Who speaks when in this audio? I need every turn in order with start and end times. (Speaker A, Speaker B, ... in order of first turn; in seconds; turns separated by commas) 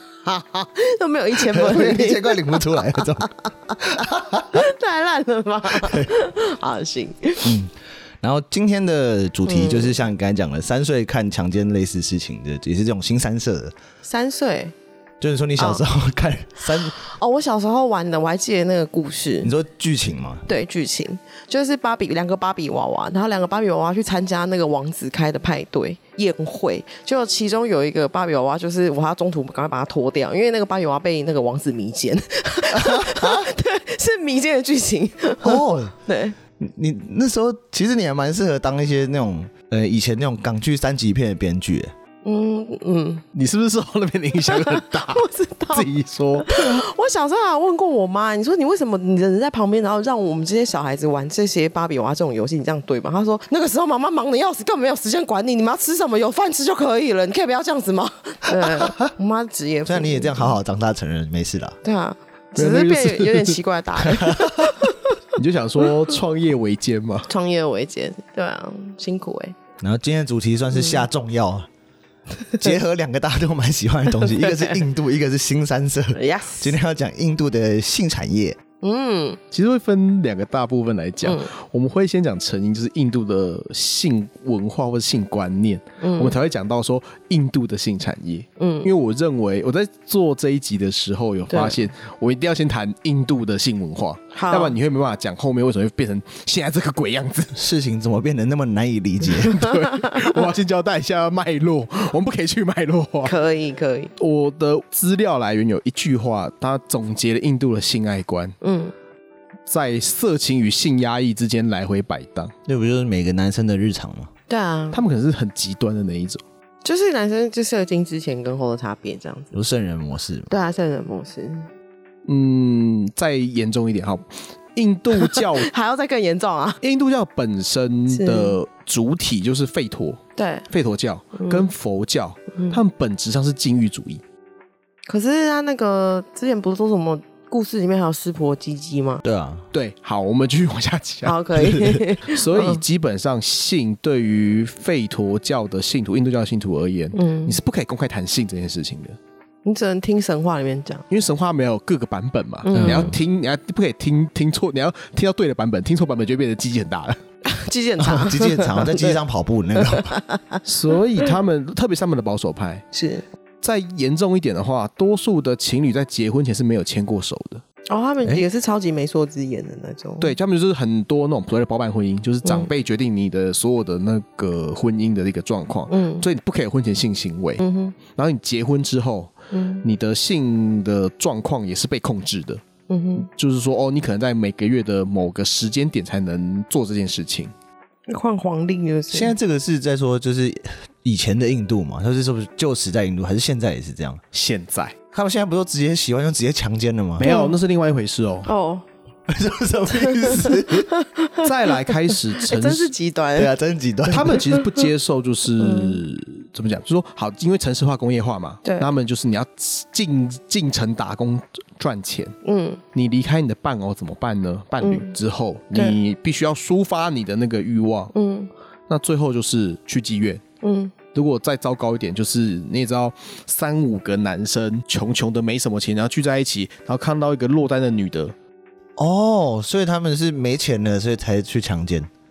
Speaker A: 0.2-7.5, Speaker B: 1.4-3.3, Speaker B: 3.8-4.6, Speaker B: 5.8-6.1, Speaker B: 7.4-13.8, Speaker A: 9.5-10.0, Speaker A: 14.0-14.7, Speaker B: 15.2-17.0, Speaker A: 16.9-19.5, Speaker B: 19.4-20.4, Speaker A: 20.5-36.4, Speaker B: 32.7-33.5, Speaker B: 35.4-36.0, Speaker B: 36.6-41.9, Speaker A: 42.2-43.2, Speaker C: 43.3-46.8, Speaker A: 44.5-60.6, Speaker B: 58.6-59.1, Speaker B: 59.9-61.8, Speaker A: 61.8-65.2, Speaker C: 62.6-63.6, Speaker B: 64.0-64.7, Speaker C: 65.3-67.3, Speaker A: 67.3-69.5, Speaker B: 69.8-71.7, Speaker A: 70.7-71.0, Speaker B: 72.6-78.6, Speaker A: 74.2-74.8, Speaker A: 76.1-76.7, Speaker A: 78.8-79.4, Speaker C: 79.5-97.6, Speaker A: 81.2-81.5, Speaker A: 86.0-86.3, Speaker A: 88.6-88.9, Speaker A: 91.5-91.8, Speaker A: 94.3-94.7, Speaker B: 97.5-99.6, Speaker C: 99.4-103.3, Speaker A: 99.6-100.3, Speaker A: 103.2-104.1, Speaker C: 104.2-108.5, Speaker A: 108.6-108.9, Speaker C: 109.7-112.5, Speaker B: 112.7-114.3, Speaker A: 114.5-115.0, Speaker C: 114.9-116.4, Speaker A: 116.8-119.5, Speaker B: 119.5-120.5, Speaker A: 120.5-121.7, Speaker C: 122.3-125.7, Speaker A: 125.2-126.8, Speaker C: 126.8-134.2, Speaker A: 128.1-128.6, Speaker A: 130.3-130.7, Speaker A: 131.4-131.7, Speaker A: 132.5-132.8, Speaker A: 135.1-139.2, Speaker B: 139.2-139.7, Speaker C: 139.7-149.2, Speaker A: 141.2-142.8, Speaker A: 147.1-147.6, Speaker A: 149.7-151.0, Speaker C: 151.1-157.2, Speaker A: 152.6-153.2, Speaker B: 152.7-153.2, Speaker A: 157.5-159.2, Speaker B: 158.0-160.2, Speaker A: 159.8-160.6, Speaker C: 160.7-162.8, Speaker A: 162.9-163.2, Speaker C: 163.6-167.6, Speaker A: 167.9-170.3, Speaker C: 170.2-182.6, Speaker A: 172.4-172.7, Speaker A: 175.9-176.3, Speaker A: 177.6-177.9, Speaker A: 179.5-179.8, Speaker A: 182.9-183.3, Speaker C: 183.2-187.5, Speaker A: 188.1-189.3, Speaker B: 189.1-194.2, Speaker C: 194.3-194.9, Speaker B: 195.1-197.3, Speaker A: 197.2-197.5, Speaker C: 197.2-198.5, Speaker A: 198.4-198.8, Speaker B: 199.3-200.9, Speaker A: 199.9-203.5, Speaker C: 201.4-202.9, Speaker B: 203.3-204.4, Speaker C: 204.1-212.3, Speaker A: 204.5-204.8, Speaker A: 205.6-206.0, Speaker A: 208.6-208.9, Speaker A: 212.4-212.8, Speaker C: 212.9-218.1, Speaker A: 214.8-215.1, Speaker A: 218.1-218.5, Speaker C: 218.9-220.4, Speaker A: 220.6-220.9, Speaker C: 221.1-228.3, Speaker B: 229.0-232.1